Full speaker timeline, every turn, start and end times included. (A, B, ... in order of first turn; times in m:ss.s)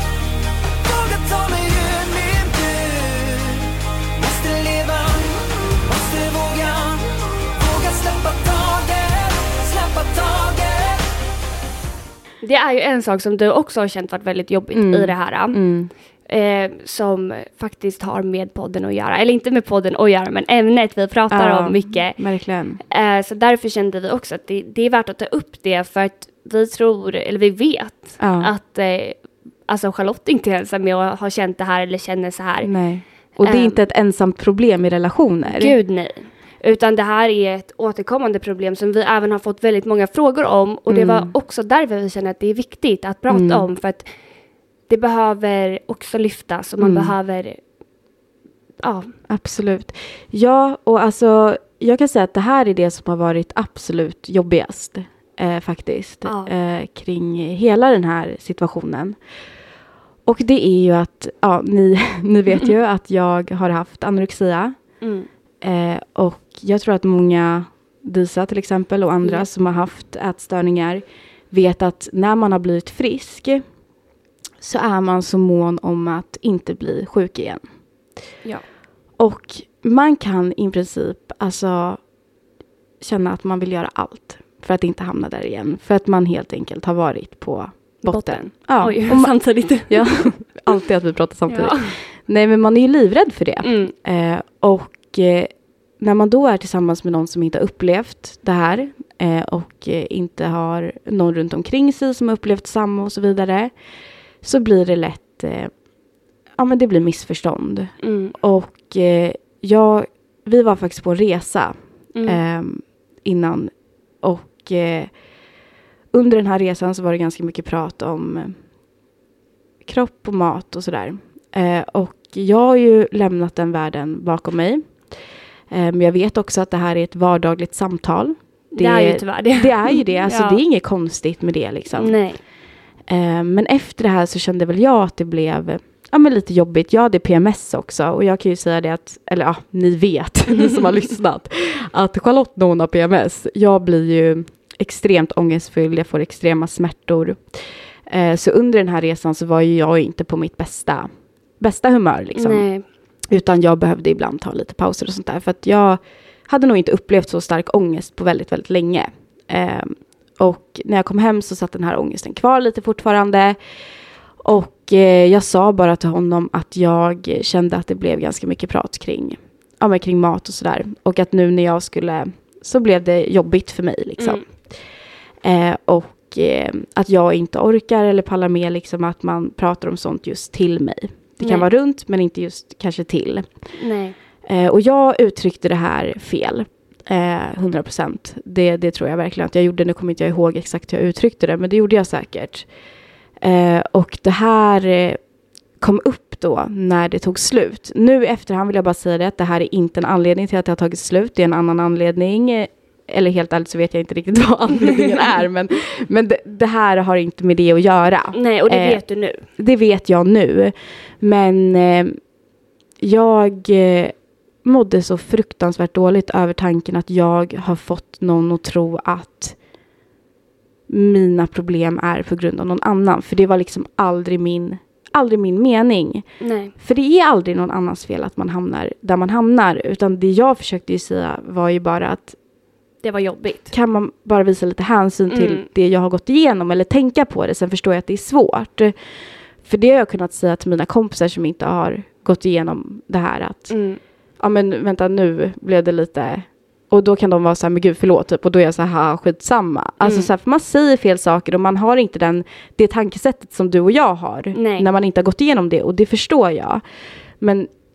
0:00.8-0:11.1 A
0:12.4-0:15.6 B
0:14.7-0:15.9 C
0:16.3-0:22.2 B
0:21.3-0:22.8 C
0:22.9-0:32.7 B
0:28.2-0:28.5 C
0:32.6-0:35.7 C
0:33.4-0:33.8 B
0:35.4-0:44.1 B
0:40.9-0:41.3 C
0:43.3-0:43.6 C
0:44.9-0:47.6 B
0:46.8-0:47.1 C
0:48.8-0:49.1 B
0:49.3-0:59.2 C
0:56.2-0:56.5 B
1:00.2-1:04.8 C
1:05.0-1:05.3 B
1:05.6-1:13.6 C
1:14.6-1:17.6 C
1:19.2-1:22.0 C
1:23.0-1:43.7 C
1:28.0-1:30.3 B
1:31.5-1:31.9 B
1:33.6-1:33.9 B
1:44.4-1:45.7 C
1:46.6-1:53.7 C
1:48.0-1:48.3 B
1:52.1-1:52.4 B
1:54.2-1:55.1 C
1:56.1-1:58.5 C
1:59.8-2:04.8 C
2:05.7-2:12.2 C
2:08.7-2:10.6 B
2:12.0-2:12.4 B
2:13.1-2:27.4 C
2:28.1-2:31.1 C
2:31.6-2:32.6 C
2:32.3-2:32.8 B
2:33.3-2:43.6 C
2:44.4-2:54.4 C
2:54.2-2:54.4 B
2:55.4-3:03.4 C
3:01.4-3:01.6 B
3:03.7-3:04.2 B
3:04.4-3:12.6 C
3:13.4-3:15.2 C
3:15.8-3:29.0 C
3:28.3-3:29.4 B
3:29.6-3:32.2 C
3:33.0-3:39.6 C
3:40.9-3:46.2 C
3:46.4-3:46.7 B
3:46.8-3:52.3 C
3:53.0-3:53.7 B
3:53.7-3:58.9 C
3:55.3-3:55.6 B
3:59.6-4:03.7 C
4:03.7-4:04.0 B
4:04.4-4:16.8 C
4:10.0-4:10.3 B
4:14.5-4:14.9 B
4:17.4-4:17.7 C